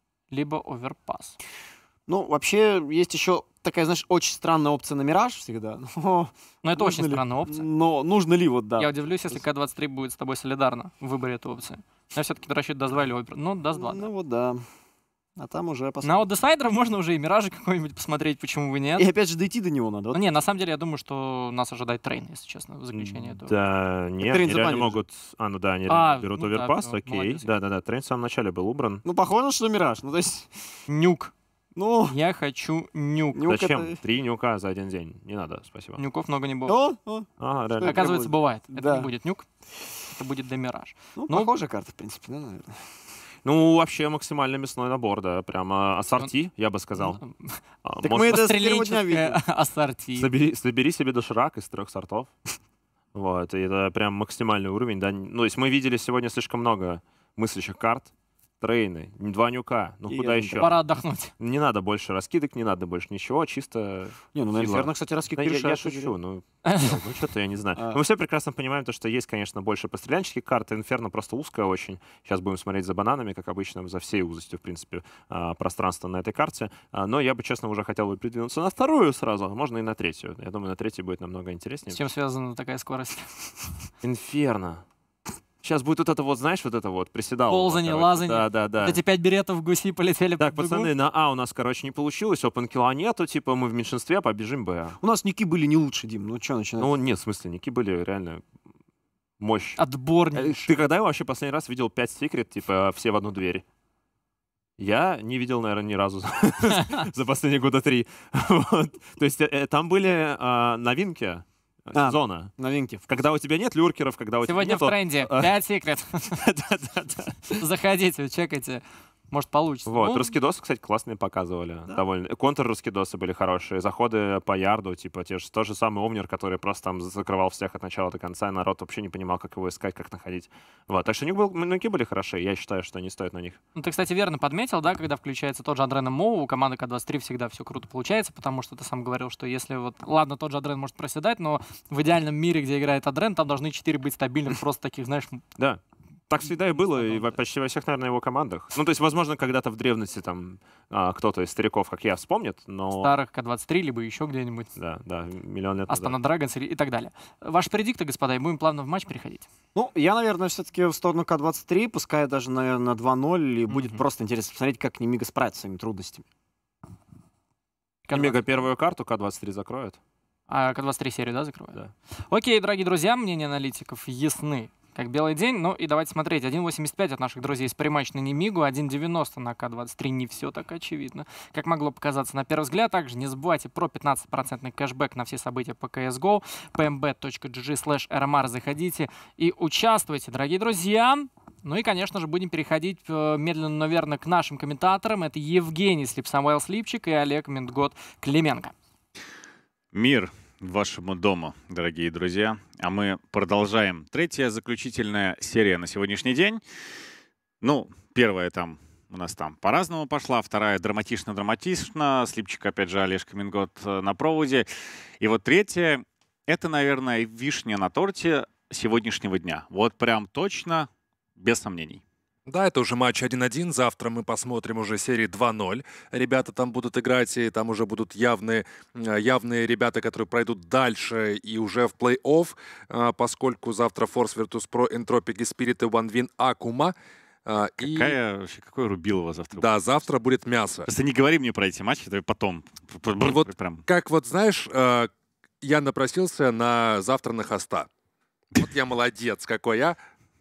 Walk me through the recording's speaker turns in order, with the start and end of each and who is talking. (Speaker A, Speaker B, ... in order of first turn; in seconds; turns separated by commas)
Speaker A: 0.3-1.4, Speaker B: 2.1-9.4, Speaker A: 6.6-7.7, Speaker A: 8.8-14.1, Speaker B: 13.7-14.7, Speaker B: 15.4-16.3, Speaker A: 16.0-19.1, Speaker B: 19.0-20.2, Speaker A: 20.1-23.5, Speaker C: 22.9-29.0, Speaker B: 24.2-25.0, Speaker A: 25.9-27.5, Speaker B: 29.0-30.5, Speaker A: 30.9-31.3, Speaker B: 31.8-32.2, Speaker A: 32.1-33.4, Speaker B: 33.3-34.0, Speaker C: 33.5-36.0, Speaker A: 36.0-36.8, Speaker B: 36.7-39.1, Speaker C: 37.4-38.1, Speaker A: 37.8-39.5, Speaker A: 40.1-41.5, Speaker B: 41.2-42.9, Speaker C: 43.4-47.2, Speaker A: 47.0-47.6, Speaker C: 47.8-48.5, Speaker B: 48.0-49.4, Speaker A: 48.2-50.3, Speaker C: 50.2-52.3, Speaker C: 53.1-60.8, Speaker B: 60.1-60.7, Speaker A: 60.6-61.3, Speaker C: 61.4-82.0, Speaker B: 64.3-66.2, Speaker A: 66.7-67.0, Speaker B: 67.8-68.0, Speaker A: 81.9-83.6, Speaker C: 84.0-84.8, Speaker C: 85.6-89.0, Speaker A: 87.5-90.9, Speaker C: 90.4-95.0, Speaker B: 95.0-96.9, Speaker C: 96.8-98.5, Speaker C: 99.4-99.8, Speaker A: 99.8-100.7, Speaker C: 100.3-103.7, Speaker C: 104.8-112.5, Speaker B: 111.9-113.0, Speaker C: 113.1-115.5, Speaker A: 114.5-116.4, Speaker C: 116.3-117.6, Speaker A: 117.5-120.4, Speaker C: 119.9-133.6, Speaker A: 133.8-145.4, Speaker C: 145.6-153.1, Speaker A: 146.4-147.4, Speaker A: 153.0-154.7, Speaker C: 154.8-156.2, Speaker A: 155.9-159.5, Speaker B: 159.8-166.2, Speaker A: 163.7-164.0, Speaker A: 168.1-168.4, Speaker C: 168.1-170.0, Speaker A: 170.5-171.8, Speaker A: 172.3-198.7, Speaker D: 199.9-206.6, Speaker D: 207.6-214.7, Speaker D: 215.2-222.0, Speaker E: 222.5-236.9, Speaker E: 237.5-238.2, Speaker D: 237.8-239.8, Speaker E: 239.6-240.9, Speaker D: 240.9-243.8, Speaker E: 243.2-247.9, Speaker E: 248.6-250.0